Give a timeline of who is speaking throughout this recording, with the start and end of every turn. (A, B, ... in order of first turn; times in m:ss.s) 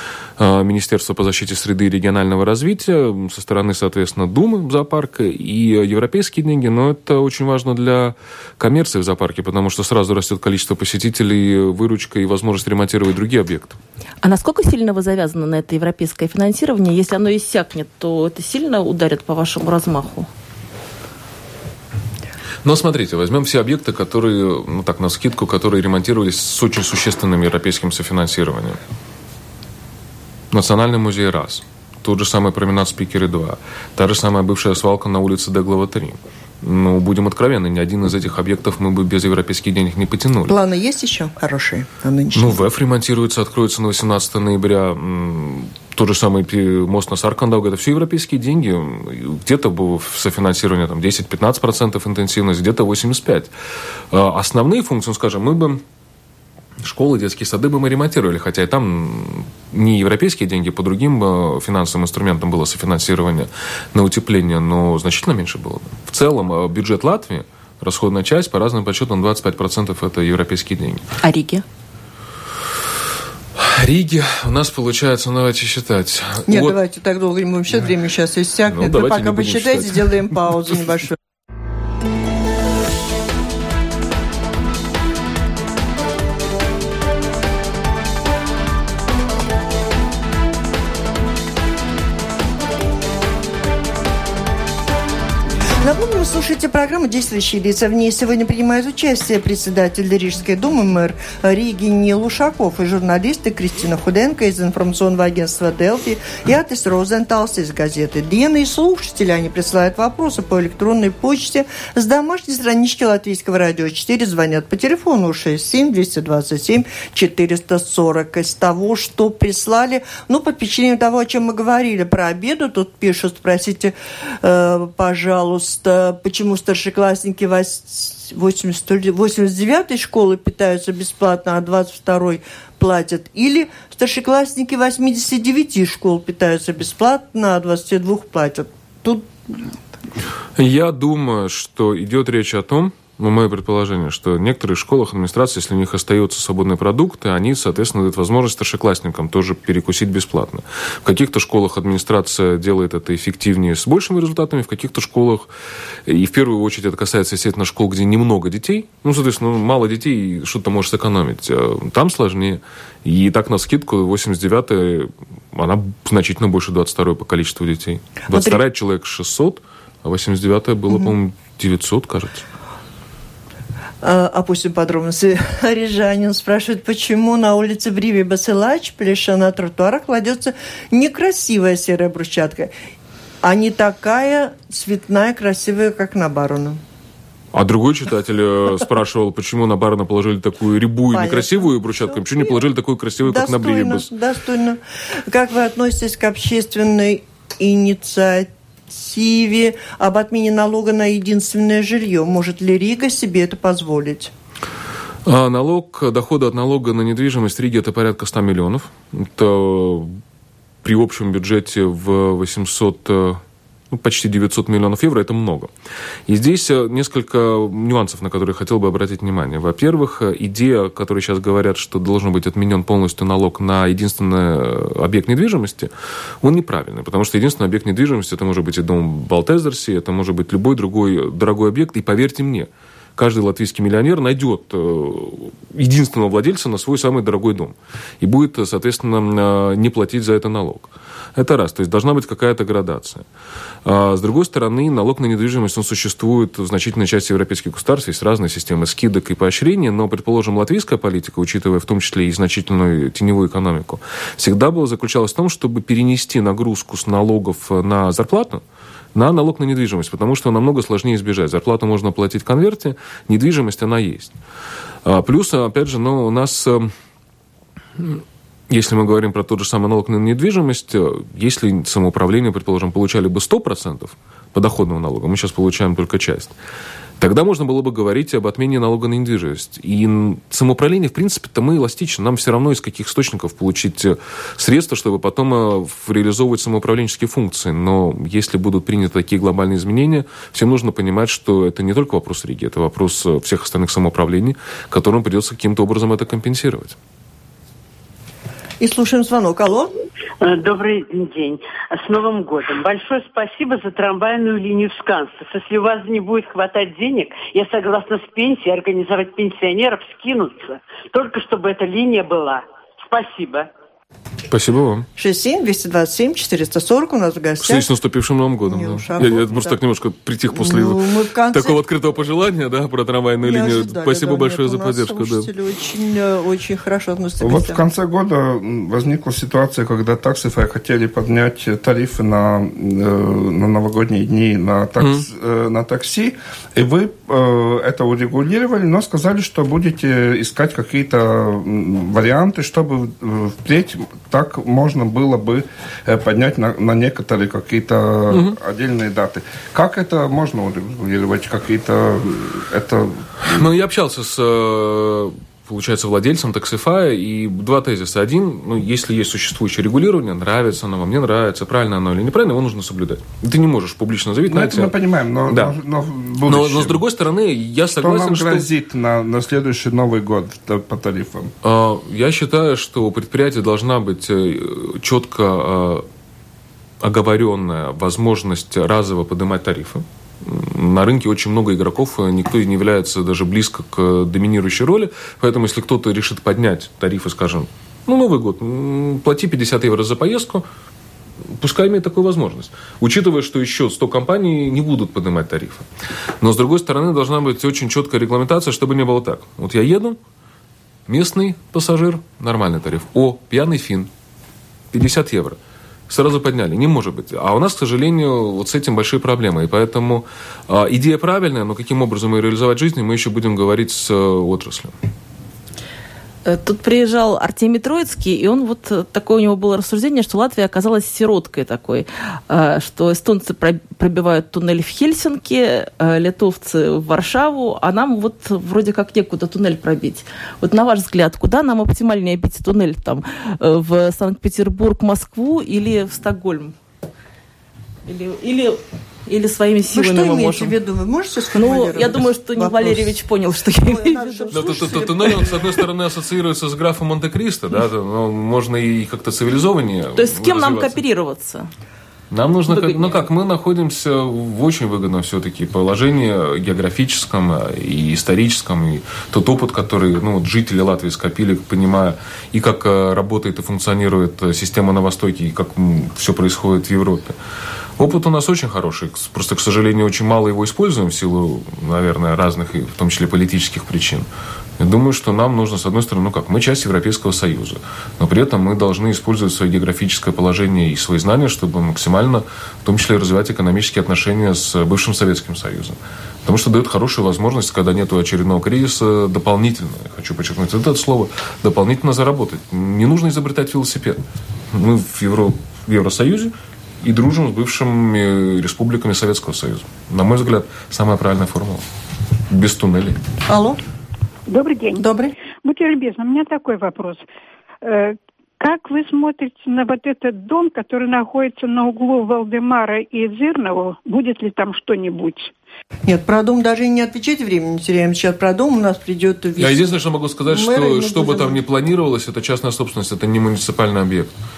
0:00.4-0:13.8 A
0:14.2-0:20.3 B
0:22.6-0:28.8 A
0:30.5-0:40.6 A
0:40.5-0:42.6 C
0:42.3-0:53.5 A
0:54.1-0:55.8 A
0:56.8-1:11.1 A
1:11.2-1:11.6 B
1:13.6-1:16.8 A
1:16.5-1:21.2 C
1:18.7-1:20.5 A
1:35.8-2:19.6 C
2:20.6-2:35.5 A
2:36.1-2:52.5 A
2:48.3-2:48.6 C
2:54.0-3:02.7 C
3:03.4-3:06.8 C
3:07.5-3:14.1 A
3:11.1-3:12.6 C
3:13.2-3:24.3 C
3:25.2-3:30.2 A
3:30.8-3:35.7 A
3:36.3-4:03.3 A
4:03.8-4:18.6 A
4:19.1-4:24.3 A
4:25.0-4:26.9 A
4:28.0-4:36.5 A
4:37.2-4:57.0 A
4:58.8-4:59.9 C
5:00.4-5:13.7 D
5:14.5-5:15.1 A
5:15.2-5:17.9 C
5:17.6-5:25.5 A
5:18.7-5:19.8 C
5:20.5-5:21.8 C
5:23.4-5:27.8 C
5:27.4-5:53.6 E
5:35.0-5:35.3 A
5:48.3-5:48.6 A
5:53.5-6:05.0 A
6:04.5-6:07.0 E
6:05.5-6:05.8 A
6:06.5-6:08.7 A
6:07.9-6:11.5 E
6:11.6-6:16.1 A
6:17.0-6:30.7 A
6:31.6-6:35.9 A
6:36.4-6:40.2 A
6:41.1-6:44.1 A
6:44.9-6:45.6 A
6:46.1-6:55.0 A
6:56.4-7:16.8 B
7:18.1-7:20.8 B
7:19.9-7:23.2 C
7:21.5-7:25.5 B
7:23.8-7:25.6 C
7:24.5-7:31.0 A
7:30.2-7:31.7 B
7:32.3-7:47.4 A
7:32.7-7:33.2 B
7:48.0-8:21.9 A
8:22.5-8:23.2 A
8:23.5-8:23.8 C
8:24.5-8:25.0 F
8:25.0-8:25.4 C
8:25.6-8:27.2 F
8:27.8-8:35.5 F
8:36.1-8:39.8 C
8:39.6-8:44.3 A
8:40.5-8:41.6 C